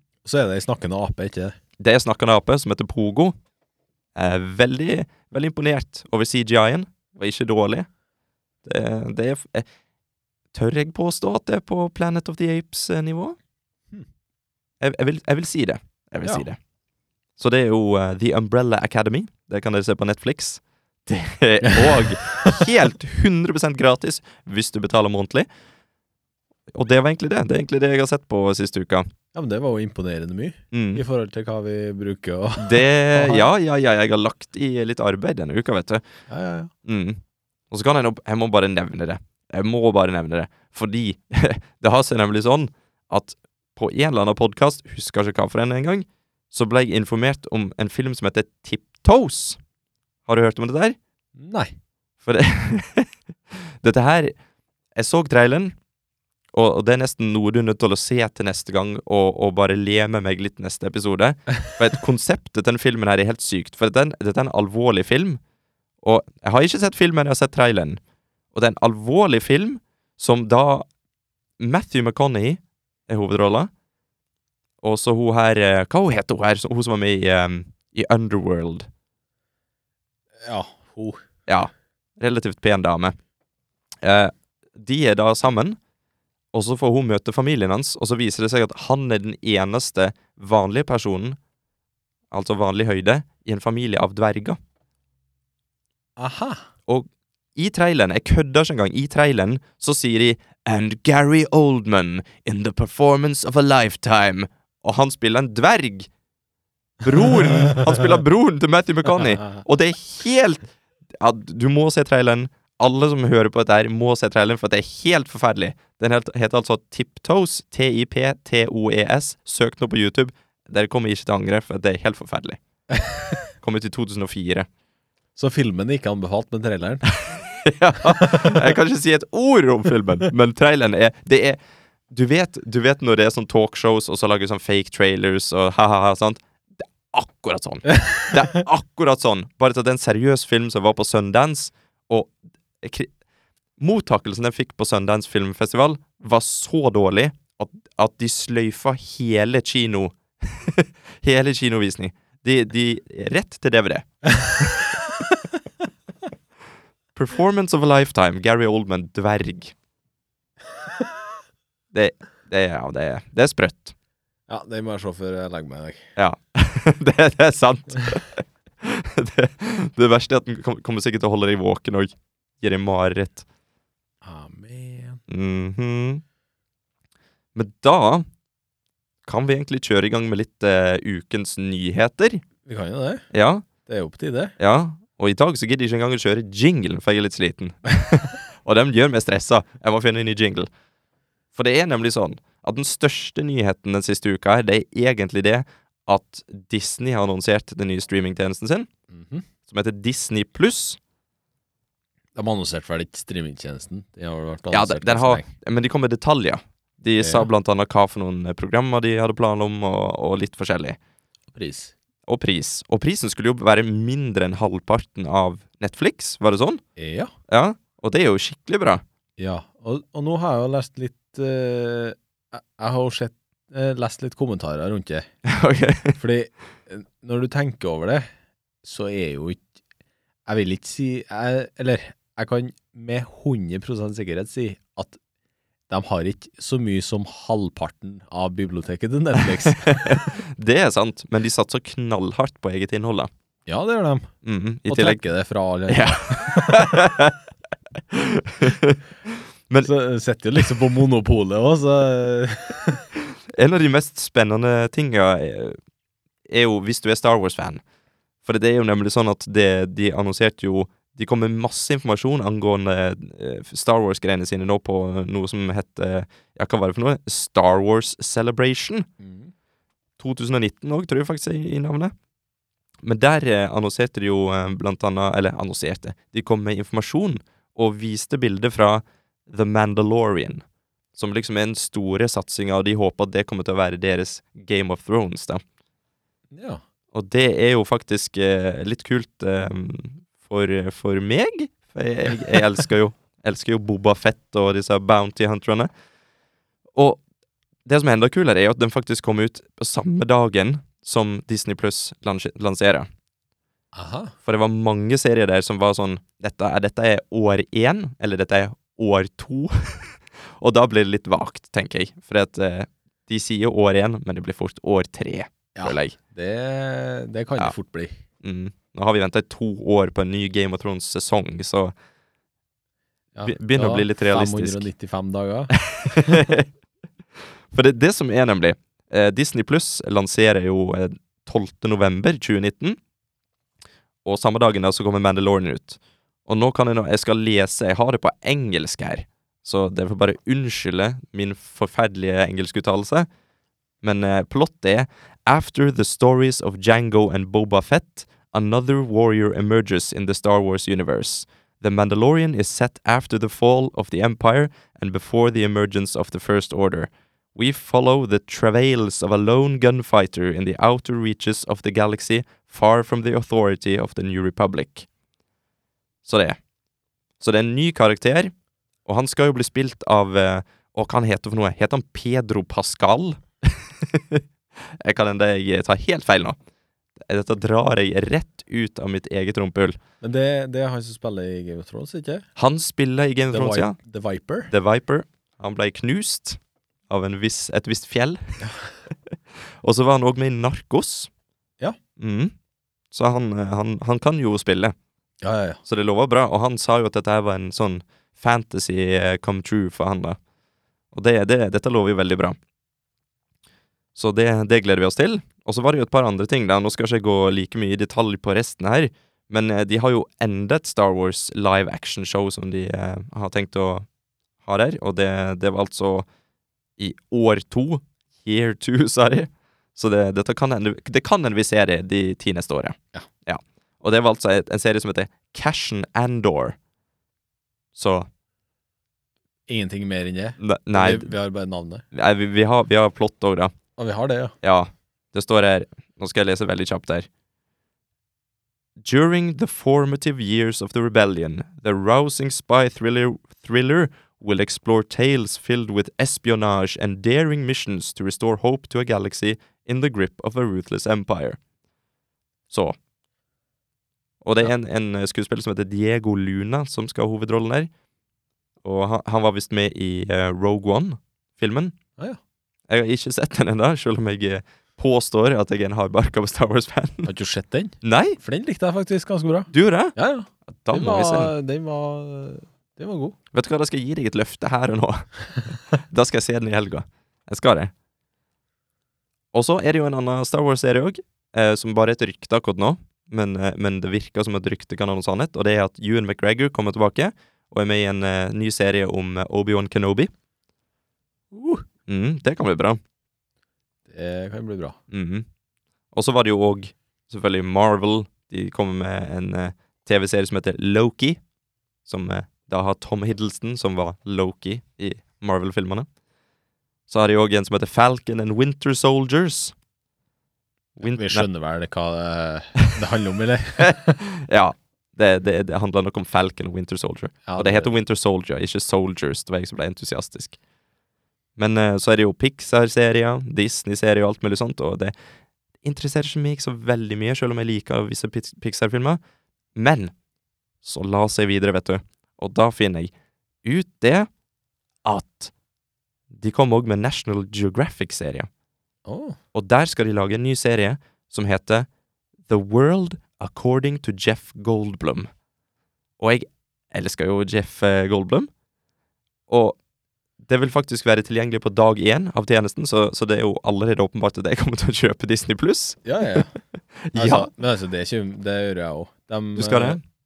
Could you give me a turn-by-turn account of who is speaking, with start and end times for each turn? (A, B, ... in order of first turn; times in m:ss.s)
0:00.2-0:01.6 A
0:01.8-0:03.4 B
0:04.2-0:07.9 B
0:08.6-0:09.7 B
0:10.5-0:13.4 B
0:14.8-0:16.6 B
0:17.4-0:25.5 B
0:21.6-0:22.6 A
0:26.7-0:29.1 B
0:29.3-0:33.5 A
0:30.7-0:31.0 B
0:32.6-0:36.0 B
0:36.3-0:36.7 A
0:36.8-0:49.6 B
0:50.3-0:51.0 B
0:51.4-0:51.7 A
0:52.2-0:54.3 B
0:55.0-0:55.8 B
0:56.5-1:05.4 B
1:06.0-1:08.0 B
1:08.5-1:10.9 B
1:11.6-1:13.7 B
1:14.8-1:18.9 B
1:20.4-1:21.2 A
1:21.5-1:23.2 B
1:24.0-1:25.8 B
1:26.5-1:31.4 B
1:32.3-1:34.6 B
1:36.2-1:36.7 A
1:36.9-1:46.1 B
1:47.0-2:02.6 B
2:03.6-2:04.7 B
2:05.4-2:07.1 A
2:07.3-2:11.6 B
2:08.1-2:08.6 A
2:12.1-2:23.1 B
2:23.8-2:35.0 B
2:37.2-2:39.7 B
2:41.9-2:44.0 B
2:44.5-2:46.1 A
2:46.2-2:53.4 B
2:54.2-2:55.2 A
2:55.3-2:56.2 B
2:57.6-2:58.2 B
2:59.2-3:02.4 B
3:02.6-3:03.2 A
3:03.3-3:03.6 B
3:03.9-3:04.6 A
3:04.6-3:10.7 B
3:11.5-3:18.9 B
3:19.1-3:19.5 A
3:19.7-3:21.0 B
3:22.4-3:25.5 A
3:24.7-3:31.0 B
3:27.2-3:27.5 A
3:31.5-3:31.9 A
3:32.3-3:36.8 B
3:37.0-3:37.3 A
3:37.5-3:39.0 B
3:39.4-3:45.3 A
3:45.4-3:46.2 B
3:46.2-3:48.3 A
3:48.8-3:49.6 A
3:50.5-3:55.2 A
3:55.9-4:00.3 A
3:59.4-4:03.3 B
4:03.7-4:04.3 A
4:04.4-4:05.2 B
4:04.9-4:07.1 A
4:05.9-4:07.4 B
4:08.1-4:09.0 B
4:09.8-4:13.1 A
4:13.5-4:15.8 B
4:16.5-4:17.8 B
4:18.4-4:29.1 B
4:29.2-4:29.5 A
4:30.2-4:32.1 B
4:33.0-4:40.6 B
4:41.2-4:45.6 B
4:46.5-4:46.8 A
4:47.1-4:55.9 B
4:57.0-4:57.2 B
4:57.9-5:03.1 B
5:03.9-5:04.4 A
5:04.4-5:16.2 B
5:15.8-5:18.2 A
5:18.4-5:21.9 B
5:23.4-5:26.5 A
5:23.4-5:24.9 B
5:25.7-5:26.7 B
5:27.7-5:33.0 B
5:34.2-5:43.3 B
5:44.0-6:05.1 B
6:06.2-6:06.6 B
6:07.4-6:08.5 B
6:09.1-6:16.6 B
6:17.2-6:20.0 B
6:20.2-6:22.5 A
6:22.6-6:24.0 B
6:23.5-6:24.7 A
6:24.7-6:28.6 B
6:29.3-6:31.3 B
6:32.2-6:32.5 B
6:33.1-6:35.0 B
6:35.4-6:35.8 A
6:35.8-6:40.4 B
6:41.1-6:42.6 B
6:44.2-6:54.1 B
6:54.6-6:56.3 B
6:57.0-7:06.8 B
7:08.0-7:08.3 B
7:09.7-7:12.0 A
7:10.6-7:11.3 B
7:12.1-7:13.7 B
7:14.0-7:14.6 A
7:14.6-7:17.3 B
7:19.0-7:31.6 B
7:32.7-7:33.0 B
7:34.4-7:37.9 B
7:38.8-7:42.0 B
7:42.9-7:47.3 B
7:47.3-7:53.4 A
7:48.0-7:48.4 B
7:49.7-7:50.2 B
7:50.7-7:51.5 B
7:53.5-7:57.9 B
7:59.5-8:10.3 B
8:11.5-8:11.8 A
8:12.1-8:13.0 B
8:14.1-8:15.0 A
8:15.1-8:15.5 B
8:16.1-8:21.4 B
8:22.1-8:26.1 B
8:27.1-8:29.8 B
8:31.0-8:31.5 B
8:31.0-8:34.2 A
8:33.8-8:40.6 B
8:37.5-8:37.9 A
8:41.6-8:45.1 B
8:45.8-8:49.2 B
8:49.8-8:50.1 B
8:50.8-8:53.1 B
8:53.6-8:54.3 B
8:55.0-8:55.5 B
8:56.3-8:58.5 B
8:59.1-8:59.4 A
8:59.5-9:01.9 B
9:02.5-9:05.3 B
9:06.2-9:08.5 B
9:09.5-9:09.8 B
9:10.4-9:16.0 B
9:16.0-9:16.5 A
9:17.0-9:17.5 B
9:17.2-9:20.0 A
9:19.6-9:20.0 B